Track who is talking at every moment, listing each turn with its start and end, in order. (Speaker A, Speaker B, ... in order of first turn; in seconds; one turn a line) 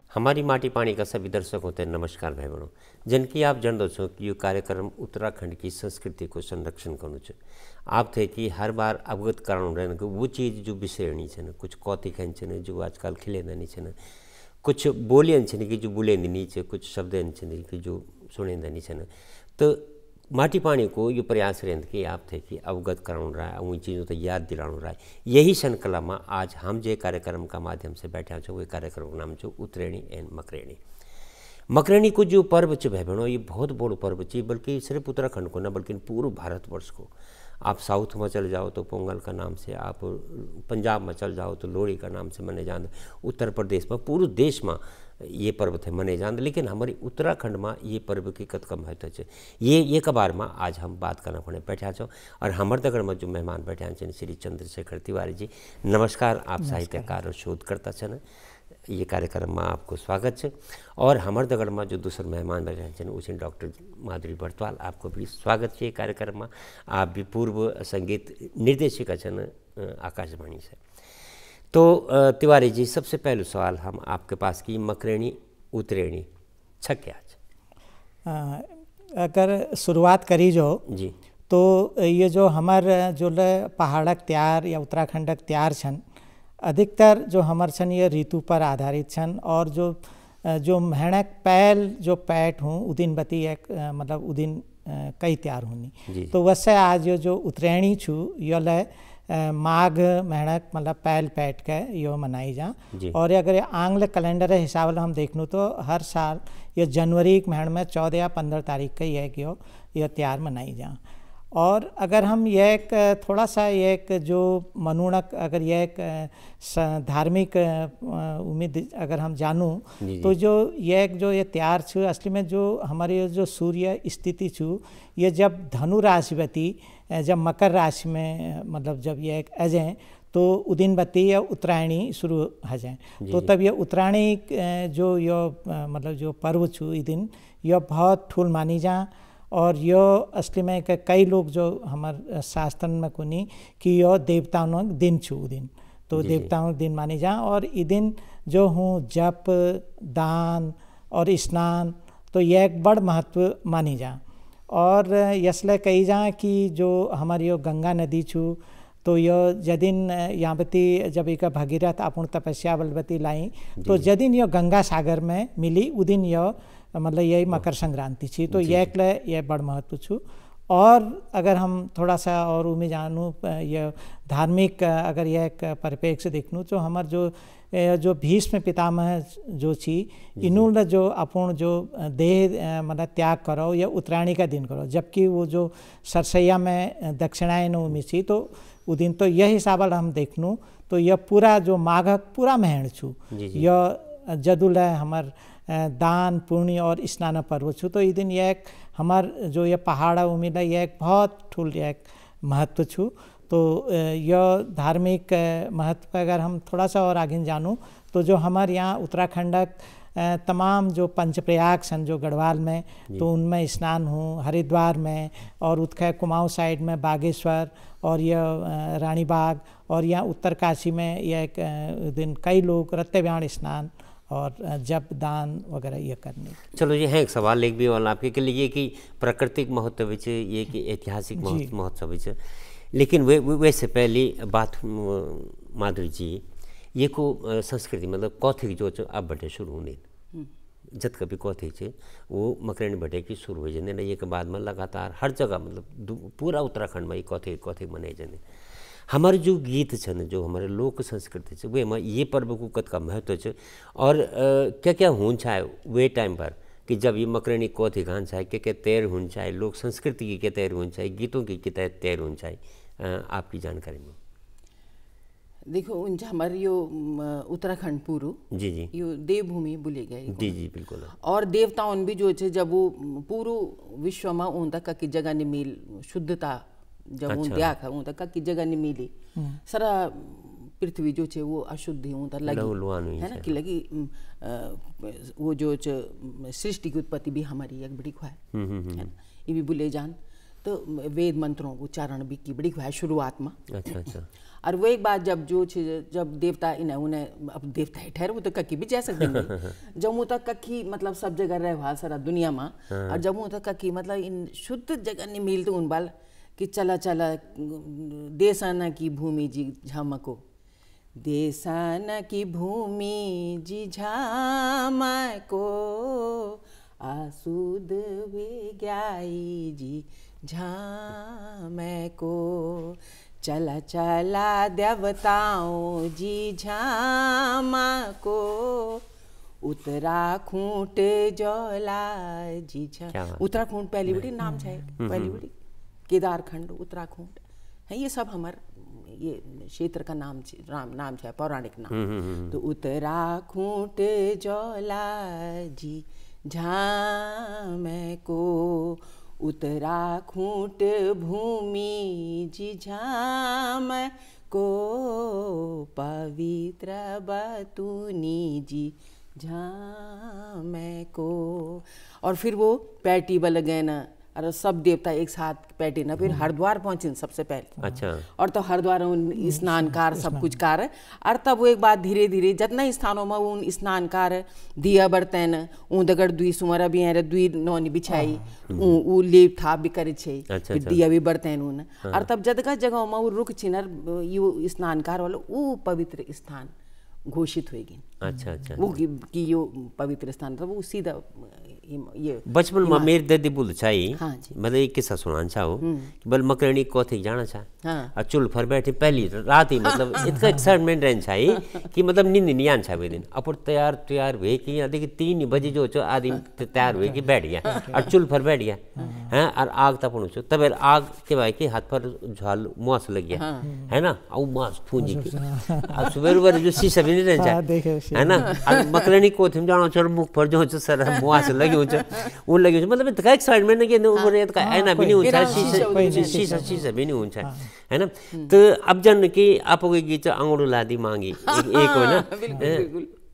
Speaker A: 0.1-7.4
Speaker A: 7.9-13.9
Speaker A: 14.6-30.8
Speaker A: 31.7-37.1
Speaker A: 37.6-58.2
Speaker B: 56.6-57.1
Speaker A: 58.9-70.8
Speaker A: 71.7-76.3
Speaker A: 76.8-77.4
Speaker B: 78.2-80.8
Speaker A: 80.9-81.1
Speaker B: 81.5-86.0
Speaker B: 86.6-111.0
Speaker A: 96.1-96.3
Speaker B: 111.5-226.6
Speaker A: 120.0-120.3
Speaker A: 133.2-133.5
Speaker A: 146.1-146.5
Speaker A: 163.8-164.1
Speaker A: 168.5-168.9
Speaker A: 180.4-180.7
Speaker A: 193.3-193.7
Speaker A: 226.7-232.4
Speaker B: 231.4-231.7
Speaker A: 232.9-240.0
Speaker A: 240.9-248.4
Speaker A: 249.1-264.1
Speaker C: 265.7-268.4
Speaker A: 268.5-268.9
Speaker C: 268.9-270.6
Speaker A: 270.3-271.1
Speaker C: 271.2-279.1
Speaker A: 277.3-277.7
Speaker C: 279.6-288.4
Speaker A: 282.4-283.5
Speaker A: 288.5-289.1
Speaker C: 288.9-293.6
Speaker A: 293.7-294.3
Speaker C: 294.6-310.4
Speaker A: 299.2-299.7
Speaker A: 302.9-303.2
Speaker C: 311.1-329.0
Speaker C: 329.6-335.5
Speaker A: 333.1-333.4
Speaker A: 335.0-335.4
Speaker C: 336.1-342.0
Speaker A: 341.9-342.6
Speaker C: 342.5-367.7
Speaker A: 367.8-368.2
Speaker C: 368.4-386.7
Speaker B: 369.4-370.5
Speaker A: 378.7-379.0
Speaker A: 380.5-381.0
Speaker C: 387.3-388.1
Speaker A: 388.2-389.0
Speaker C: 388.7-393.1
Speaker A: 392.4-432.9
Speaker C: 394.1-394.6
Speaker C: 395.8-396.1
Speaker C: 397.8-398.1
Speaker C: 399.8-400.5
Speaker B: 400.3-400.7
Speaker C: 401.5-401.9
Speaker B: 407.0-407.9
Speaker C: 407.6-408.1
Speaker B: 409.0-409.3
Speaker C: 413.3-413.7
Speaker B: 413.6-413.9
Speaker B: 415.0-416.3
Speaker B: 417.4-418.7
Speaker C: 418.5-419.1
Speaker C: 421.1-422.3
Speaker B: 424.6-426.9
Speaker C: 425.2-426.7
Speaker B: 427.4-427.7
Speaker C: 431.4-433.1